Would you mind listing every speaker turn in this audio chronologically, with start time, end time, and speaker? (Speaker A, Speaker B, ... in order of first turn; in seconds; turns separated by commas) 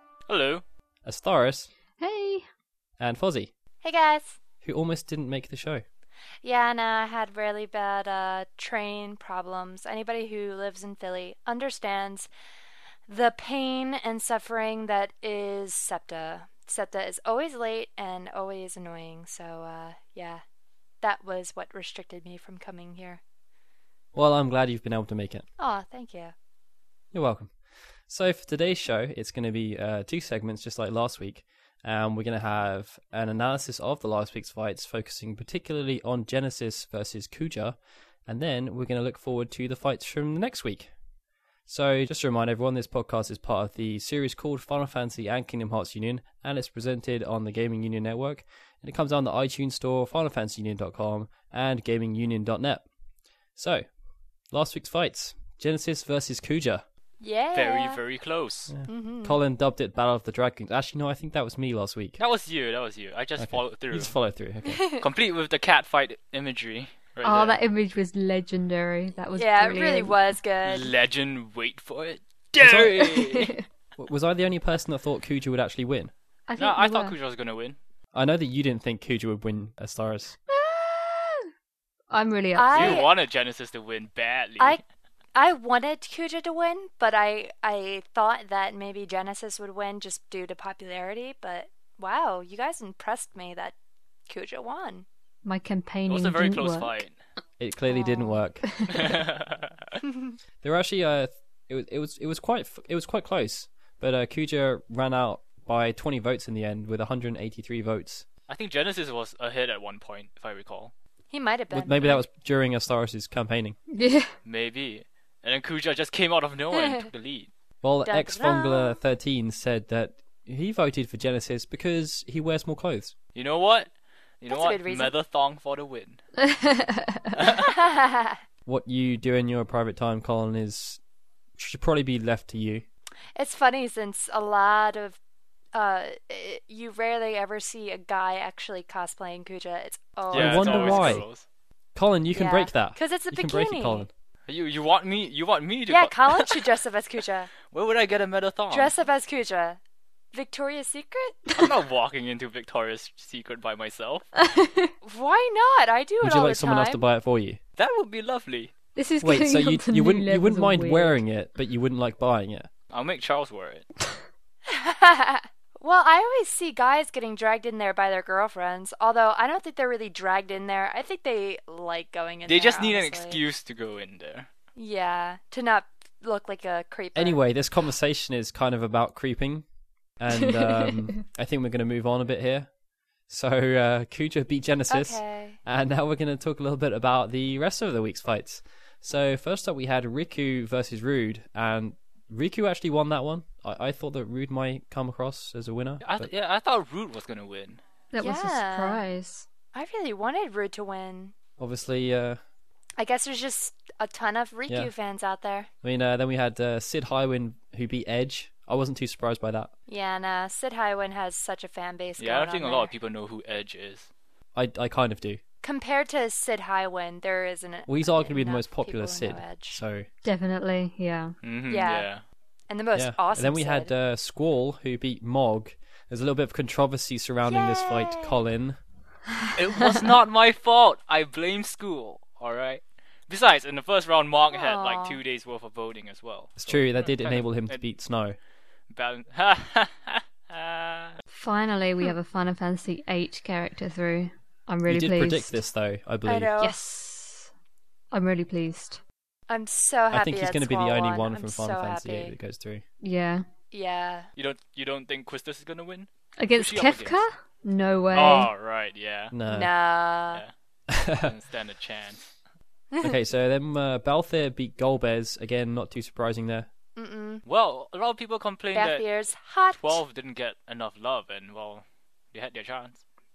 Speaker A: 0.3-0.6, Speaker B: 1.0-1.7, Speaker C: 2.0-2.4, Speaker B: 3.0-3.5, Speaker D: 3.8-4.4, Speaker B: 4.6-5.8, Speaker D: 6.4-12.3, Speaker D: 13.1-20.4, Speaker D: 21.0-23.2, Speaker B: 24.1-25.4, Speaker D: 25.6-26.3, Speaker B: 27.1-27.5, Speaker B: 28.1-40.9, Speaker B: 41.7-52.9, Speaker B: 53.5-53.8, Speaker B: 54.5-56.9, Speaker D: 57.2-58.0, Speaker A: 57.5-58.7, Speaker B: 58.7-62.2, Speaker D: 58.9-59.4, Speaker A: 62.2-64.2, Speaker B: 63.4-64.8, Speaker D: 64.6-65.0, Speaker A: 65.0-67.6, Speaker C: 67.2-70.3, Speaker D: 69.3-70.9, Speaker A: 70.6-73.5, Speaker B: 72.6-72.9, Speaker C: 73.1-73.6, Speaker B: 74.0-76.1, Speaker C: 76.5-77.2, Speaker A: 76.6-77.8, Speaker B: 78.1-80.3, Speaker C: 80.5-81.4, Speaker C: 82.1-83.0, Speaker D: 82.5-83.1, Speaker A: 82.7-84.8, Speaker D: 85.3-93.7, Speaker D: 94.3-95.0, Speaker C: 95.4-97.0, Speaker A: 96.1-97.2, Speaker B: 97.6-98.7, Speaker D: 97.9-98.4, Speaker A: 98.9-100.0, Speaker D: 100.0-100.3, Speaker B: 100.6-108.2, Speaker A: 108.5-110.9, Speaker D: 111.3-112.2, Speaker B: 111.7-113.8, Speaker C: 113.9-114.3, Speaker A: 114.4-117.5, Speaker D: 116.7-117.1, Speaker B: 117.8-123.1, Speaker D: 118.0-119.0, Speaker A: 123.3-126.2, Speaker D: 124.5-125.2, Speaker C: 126.4-127.3, Speaker D: 127.5-128.4, Speaker B: 128.7-131.0, Speaker B: 131.6-132.8, Speaker D: 133.3-135.2, Speaker D: 135.7-141.2, Speaker B: 140.3-141.2, Speaker A: 140.3-141.4, Speaker B: 141.9-144.1, Speaker D: 142.3-144.1, Speaker A: 144.5-146.7, Speaker D: 145.9-147.5, Speaker A: 147.7-148.9, Speaker D: 148.7-149.8, Speaker D: 150.3-151.5, Speaker A: 151.6-154.3, Speaker C: 154.4-154.9, Speaker D: 155.0-157.0, Speaker B: 156.2-157.6, Speaker A: 157.8-158.7, Speaker C: 158.9-161.2, Speaker B: 159.2-162.7, Speaker A: 162.9-163.9, Speaker D: 164.7-173.4, Speaker A: 172.4-174.5, Speaker D: 174.8-177.4, Speaker B: 177.2-179.7, Speaker B: 180.2-182.7, Speaker C: 180.5-181.0, Speaker B: 183.3-196.3, Speaker D: 184.9-185.6, Speaker A: 196.0-197.8, Speaker C: 198.1-199.4, Speaker D: 198.2-199.0, Speaker D: 199.7-201.3, Speaker B: 201.6-202.4, Speaker D: 203.0-205.7, Speaker B: 205.8-209.7, Speaker D: 209.9-212.9, Speaker A: 212.2-214.1, Speaker B: 214.5-215.4, Speaker D: 215.6-219.8, Speaker B: 217.9-220.1, Speaker C: 220.2-221.3, Speaker A: 221.4-222.2, Speaker D: 221.7-222.1, Speaker D: 222.7-223.9, Speaker B: 222.9-228.8, Speaker D: 227.4-228.4, Speaker A: 229.5-237.8, Speaker D: 234.5-235.2, Speaker B: 236.6-238.4, Speaker A: 238.9-241.1, Speaker C: 241.3-245.6, Speaker B: 244.9-246.5, Speaker D: 246.3-246.8, Speaker C: 246.6-247.5, Speaker C: 248.1-249.0, Speaker D: 249.5-252.3, Speaker B: 250.1-252.8, Speaker C: 253.0-253.4, Speaker D: 253.7-254.3, Speaker A: 254.3-257.2, Speaker C: 256.4-258.5, Speaker A: 258.1-259.3, Speaker B: 259.3-259.7, Speaker D: 259.5-260.4, Speaker B: 260.9-261.3, Speaker A: 261.2-262.3, Speaker B: 263.0-266.7, Speaker D: 267.0-267.4, Speaker A: 267.4-269.1, Speaker D: 268.7-270.0, Speaker A: 269.7-273.0